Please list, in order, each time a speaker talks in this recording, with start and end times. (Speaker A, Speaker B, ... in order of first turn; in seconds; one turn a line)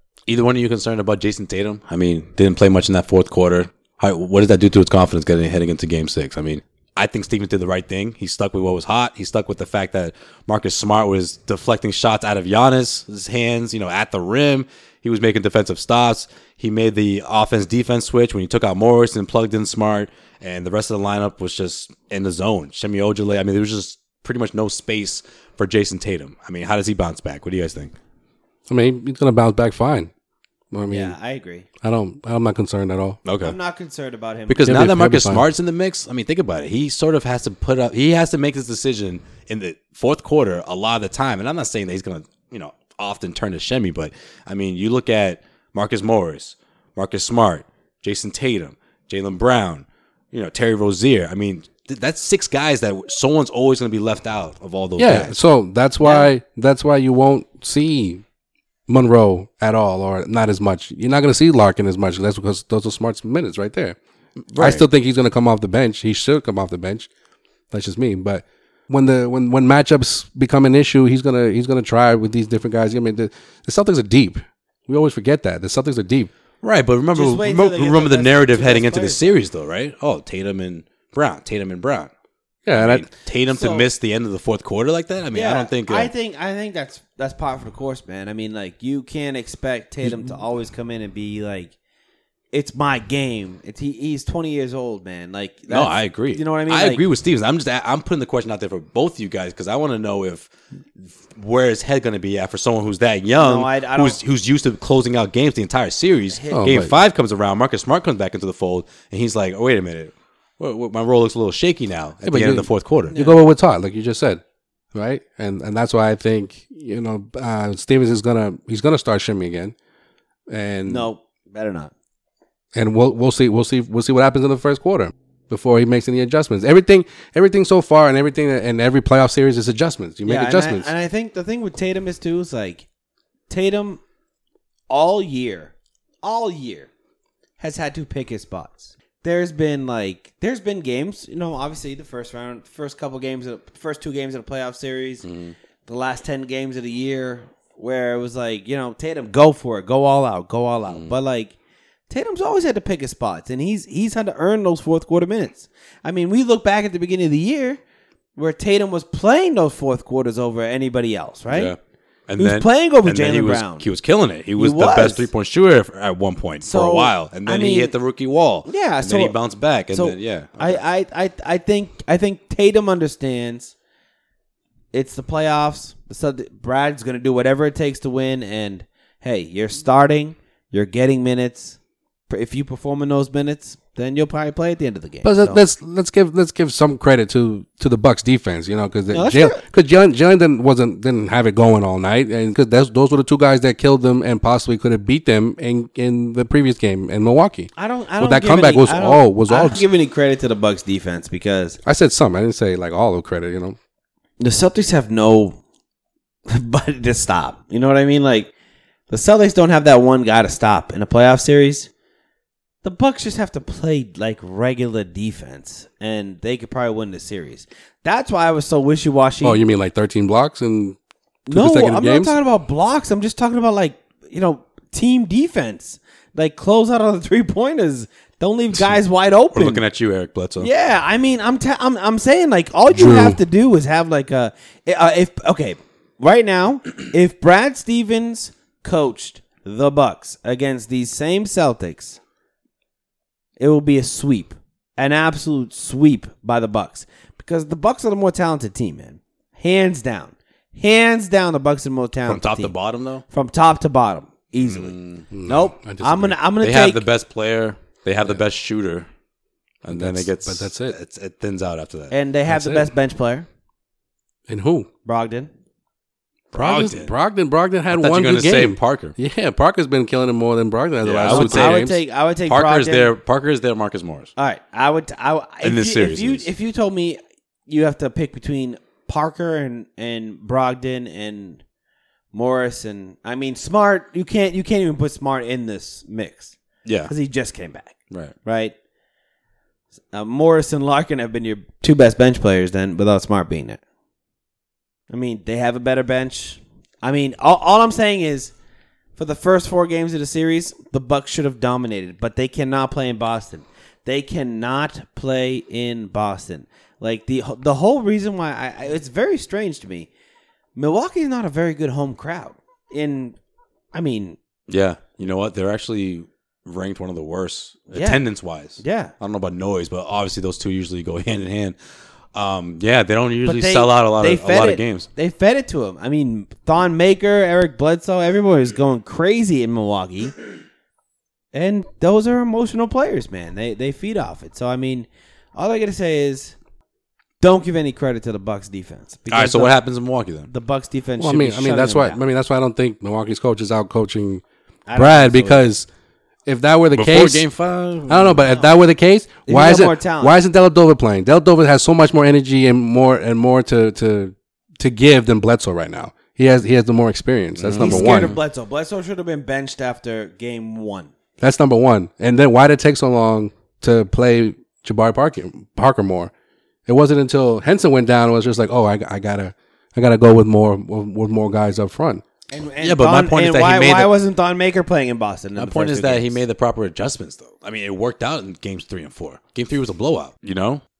Speaker A: 0.3-27.9
Speaker B: 28.7-30.1
Speaker B: 30.7-31.1
Speaker C: 30.9-31.6
Speaker B: 31.8-33.2
Speaker A: 33.2-33.5
Speaker C: 33.4-34.7
Speaker A: 34.5-55.4
Speaker B: 34.6-35.5
Speaker B: 55.0-58.2
Speaker C: 56.0-56.3
Speaker B: 58.9-64.0
Speaker A: 64.5-64.8
Speaker B: 64.5-67.1
Speaker B: 67.7-76.3
Speaker A: 76.6-82.1
Speaker C: 77.1-79.4
Speaker B: 82.7-83.1
Speaker A: 82.7-86.1
Speaker C: 83.5-83.9
Speaker C: 85.3-91.7
Speaker B: 90.0-90.3
Speaker C: 92.5-97.0
Speaker A: 95.7-100.5
Speaker A: 101.3-113.1
Speaker C: 103.4-104.2
Speaker C: 106.3-106.7
Speaker B: 106.5-106.9
Speaker B: 112.2-114.4
Speaker C: 113.1-113.4
Speaker B: 114.9-119.7
Speaker B: 120.5-121.1
Speaker C: 120.8-121.9
Speaker B: 122.7-130.9
Speaker C: 130.2-132.8
Speaker C: 133.5-134.0
Speaker C: 134.9-135.7
Speaker C: 136.2-136.9
Speaker C: 137.6-145.2
Speaker A: 145.2-145.5
Speaker C: 145.8-151.5
Speaker A: 150.9-151.1
Speaker C: 152.1-157.8
Speaker C: 158.3-161.7
Speaker A: 161.5-170.8
Speaker C: 162.4-163.9
Speaker C: 164.6-165.3
Speaker C: 166.6-167.9
Speaker C: 168.6-169.3
Speaker C: 169.9-173.7
Speaker C: 174.9-181.8
Speaker C: 182.3-185.6
Speaker B: 185.2-199.8
Speaker C: 189.1-189.6
Speaker C: 197.8-201.8
Speaker B: 201.8-203.8
Speaker C: 204.4-205.6
Speaker C: 206.5-208.5
Speaker C: 209.1-211.9
Speaker C: 212.8-219.6
Speaker B: 219.4-221.0
Speaker C: 221.5-229.8
Speaker B: 221.5-222.4
Speaker A: 229.5-230.7
Speaker C: 230.6-242.2
Speaker B: 232.9-233.4
Speaker C: 243.6-252.7
Speaker A: 252.2-253.2
Speaker C: 253.3-257.0
Speaker A: 254.6-255.3
Speaker B: 255.3-256.4
Speaker A: 256.6-259.1
Speaker A: 259.8-262.1
Speaker B: 259.9-260.9
Speaker C: 262.1-263.4
Speaker B: 262.5-262.9
Speaker B: 264.5-264.9
Speaker C: 265.0-265.5
Speaker A: 266.5-267.1
Speaker B: 266.5-272.0
Speaker A: 267.9-269.1
Speaker A: 271.0-271.8
Speaker C: 271.3-273.1
Speaker A: 272.4-274.3
Speaker C: 274.4-281.6
Speaker A: 275.6-276.5
Speaker C: 282.3-286.5
Speaker A: 286.8-287.1
Speaker C: 287.1-288.7
Speaker C: 290.1-293.8
Speaker C: 295.1-298.5
Speaker C: 299.1-310.1
Speaker C: 310.8-313.4
Speaker C: 313.9-314.4
Speaker A: 314.7-321.8
Speaker C: 317.9-318.2
Speaker C: 318.8-319.1
Speaker A: 322.3-325.1
Speaker C: 323.4-330.3
Speaker C: 331.5-336.5
Speaker C: 337.4-339.8
Speaker A: 339.3-340.5
Speaker C: 340.5-342.2
Speaker B: 341.2-344.4
Speaker C: 344.9-345.6
Speaker B: 344.9-345.9
Speaker B: 346.4-347.4
Speaker A: 346.9-348.4
Speaker B: 348.1-358.4
Speaker C: 348.4-348.7
Speaker C: 349.4-350.4
Speaker A: 357.6-358.4
Speaker C: 357.7-361.1
Speaker B: 361.4-366.3
Speaker B: 366.9-372.2
Speaker C: 372.5-376.4
Speaker A: 372.8-374.1
Speaker A: 375.6-380.8